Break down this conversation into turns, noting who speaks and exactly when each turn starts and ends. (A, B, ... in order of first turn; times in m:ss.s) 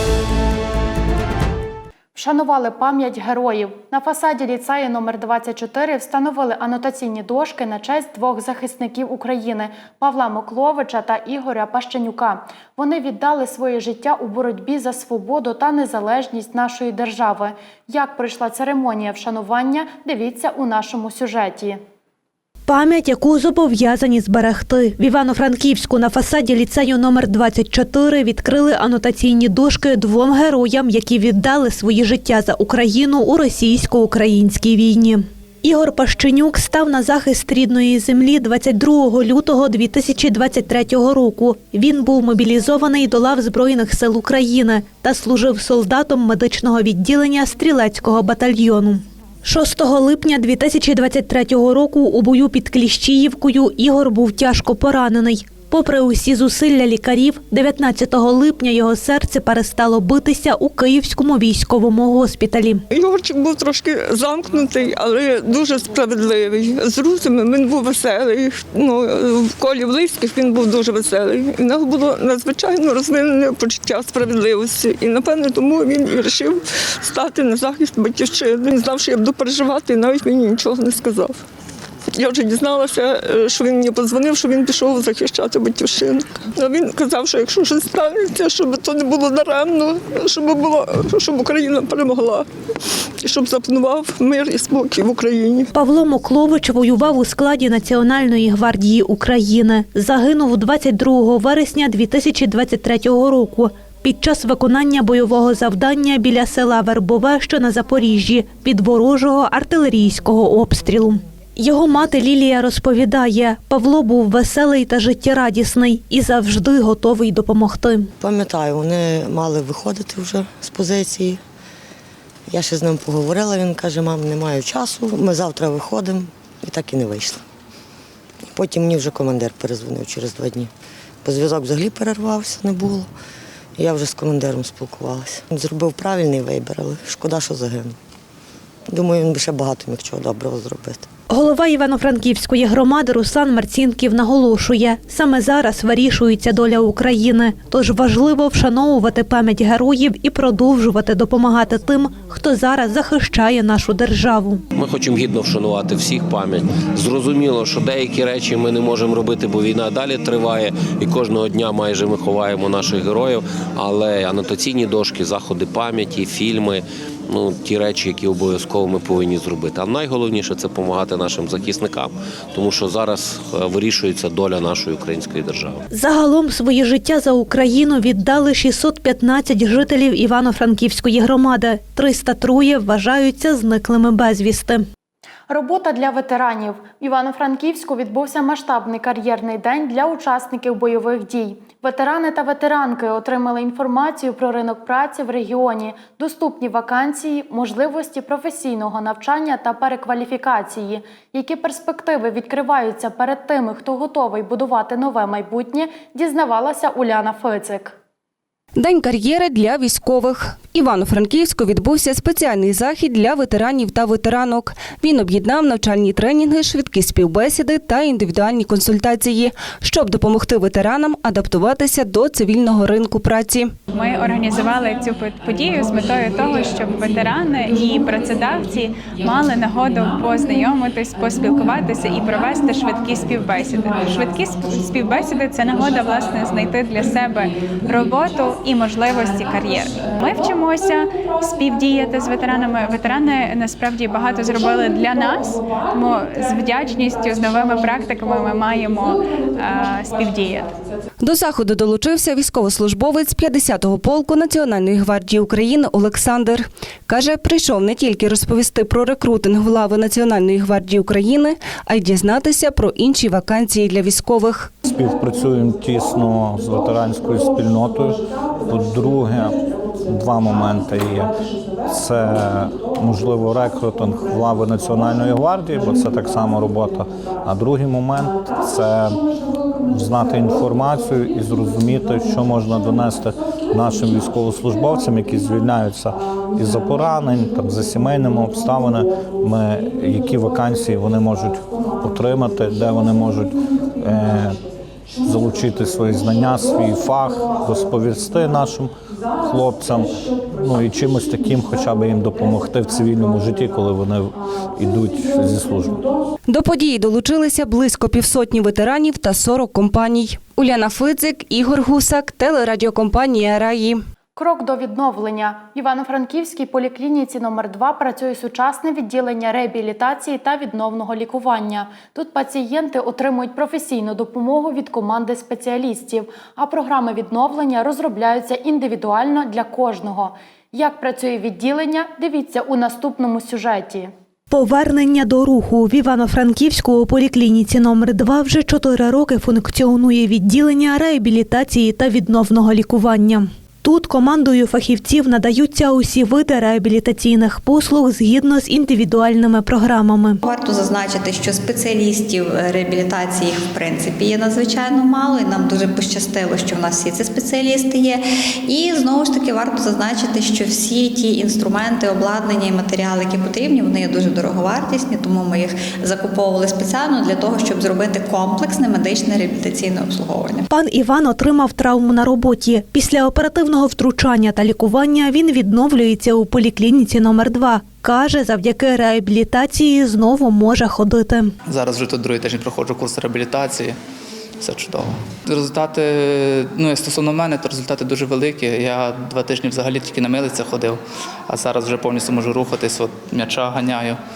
0:02.1-0:21.8 A
0:22.7-1:02.8 B
1:02.9-1:21.4 C
1:22.2-1:32.4 C
1:33.2-1:35.7 C
1:35.7-1:58.1 B
1:58.2-2:01.4 D
2:02.5-2:07.4 D
2:08.5-2:10.7 D
2:11.2-2:13.1 D
2:13.8-2:18.0 D
2:18.9-2:21.1 D
2:21.3-2:34.6 B
2:34.8-2:55.8 E
2:55.9-3:04.8 B
3:05.5-3:27.9 A
3:29.0-3:29.4 F
3:31.3-3:43.6 F
3:43.9-4:10.7 G
4:11.3-4:16.6 F
4:17.1-4:24.7 F
4:24.8-4:31.3 H
4:31.9-4:39.2 H
4:39.9-4:54.6 H
4:55.2-4:58.9 H
4:59.4-5:06.0 H
5:06.8-5:13.8 F
5:14.4-5:34.1 A
5:34.5-5:50.4 B
5:50.4-6:10.6 I
6:10.7-6:21.5 B
6:21.6-6:24.0 J
6:24.6-6:34.2 J